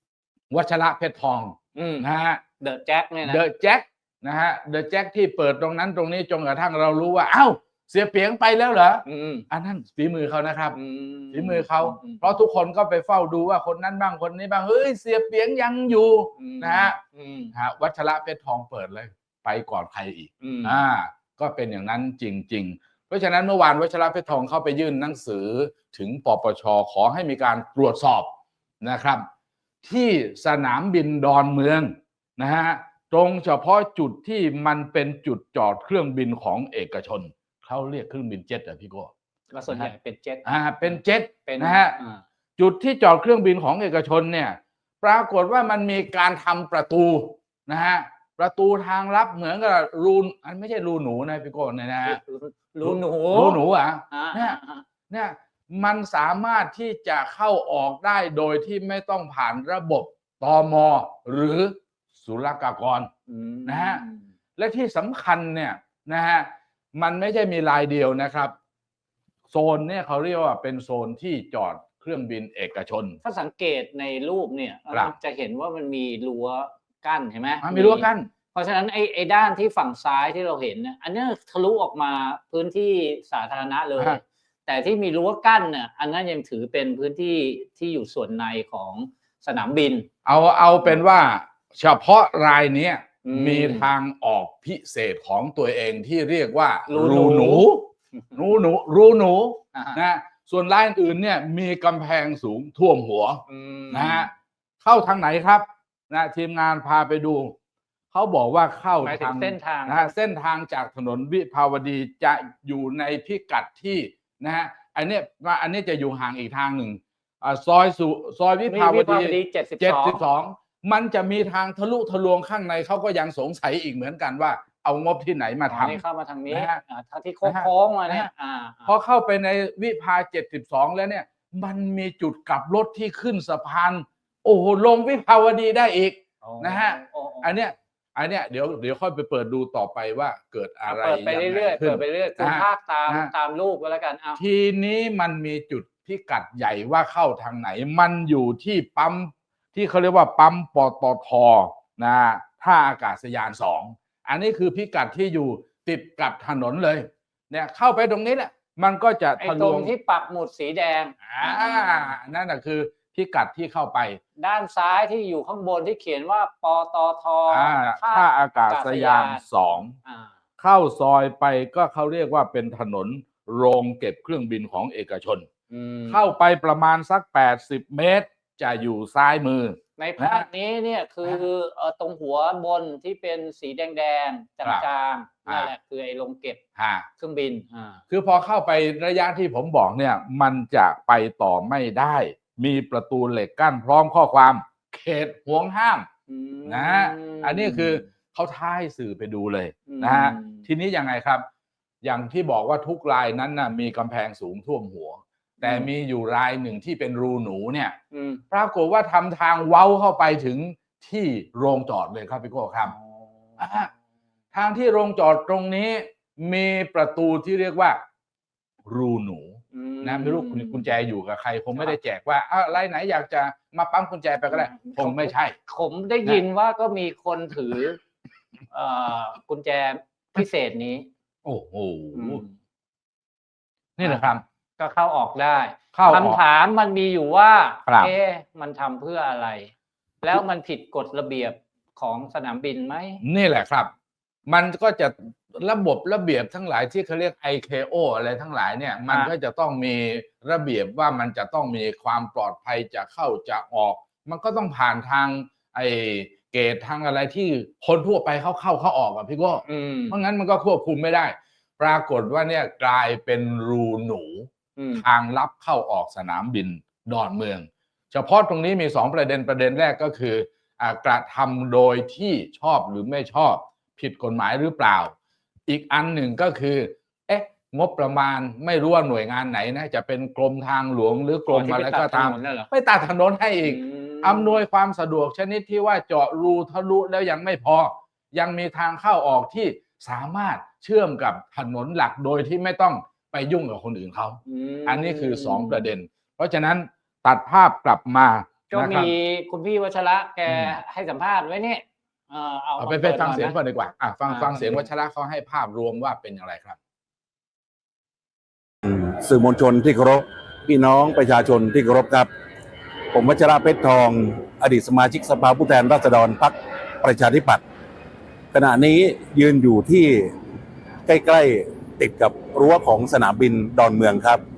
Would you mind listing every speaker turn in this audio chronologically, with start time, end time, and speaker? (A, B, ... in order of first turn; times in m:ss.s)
0:00.5-0:02.4 A
0:01.7-0:02.0 B
0:02.6-0:03.4 B
0:03.2-0:10.8 A
0:09.0-0:09.4 B
0:10.7-0:12.4 B
0:11.3-0:17.0 A
0:16.4-0:17.5 B
0:17.5-0:28.3 A
0:20.4-0:20.8 B
0:28.8-0:29.2 A
0:29.8-0:39.1 A
0:39.5-0:42.2 B
0:40.4-0:42.0 A
0:42.6-0:52.2 A
0:52.0-0:53.6 B
0:52.8-0:54.6 A
0:54.1-0:54.8 B
0:55.1-1:03.1 A
1:03.3-1:04.2 B
1:03.6-1:04.0 A
1:04.6-1:08.5 A
1:09.5-1:13.2 A
1:13.2-1:30.1 B
1:17.6-1:18.3 A
1:30.2-1:44.3 A
1:33.2-1:33.9 B
1:36.9-1:37.7 B
1:43.5-1:44.3 B
1:44.8-1:47.5 A
1:48.1-2:06.8 A
1:49.0-1:50.1 B
1:58.7-2:00.2 B
2:05.7-2:08.9 B
2:07.4-2:08.3 A
2:08.9-2:23.3 A
2:16.4-2:17.5 B
2:20.9-2:24.4 B
2:24.4-2:39.9 A
2:39.4-2:42.2 B
2:41.2-2:44.2 A
2:44.4-2:49.4 B
2:47.5-2:50.0 A
2:50.0-2:50.3 B
2:50.6-2:55.5 A
2:55.7-2:56.2 B
2:56.1-3:00.5 A
3:00.0-3:06.6 B
3:06.8-3:07.1 A
3:07.2-3:08.0 B
3:08.1-3:16.1 A
3:16.3-3:18.0 B
3:16.6-3:21.4 A
3:19.9-3:20.6 B
3:22.0-3:28.0 A
3:25.6-3:25.9 B
3:28.1-3:28.4 B
3:28.5-3:32.9 A
3:32.9-3:33.6 B
3:33.6-3:33.9 A
3:34.5-3:38.0 A
3:38.8-3:45.5 A
3:39.7-3:40.9 B
3:44.5-3:48.0 B
3:48.7-3:51.1 B
3:51.4-3:52.4 A
3:52.1-3:52.5 B
3:54.0-3:54.4 A
3:54.0-4:03.2 B
3:55.9-3:56.4 A
3:57.8-3:58.1 A
4:03.2-4:03.9 A
4:04.5-4:35.1 A
4:19.6-4:20.2 B
4:24.8-4:25.0 B
4:35.7-4:59.1 A
4:41.5-4:42.7 B
4:43.6-4:44.6 B
4:54.4-4:55.9 B
4:58.7-5:03.5 B
5:00.5-5:00.8 A
5:02.8-5:06.8 A
5:04.3-5:04.9 B
5:08.8-5:12.3 C
5:13.1-5:17.6 C
5:18.5-5:20.3 C
5:21.1-5:24.4 C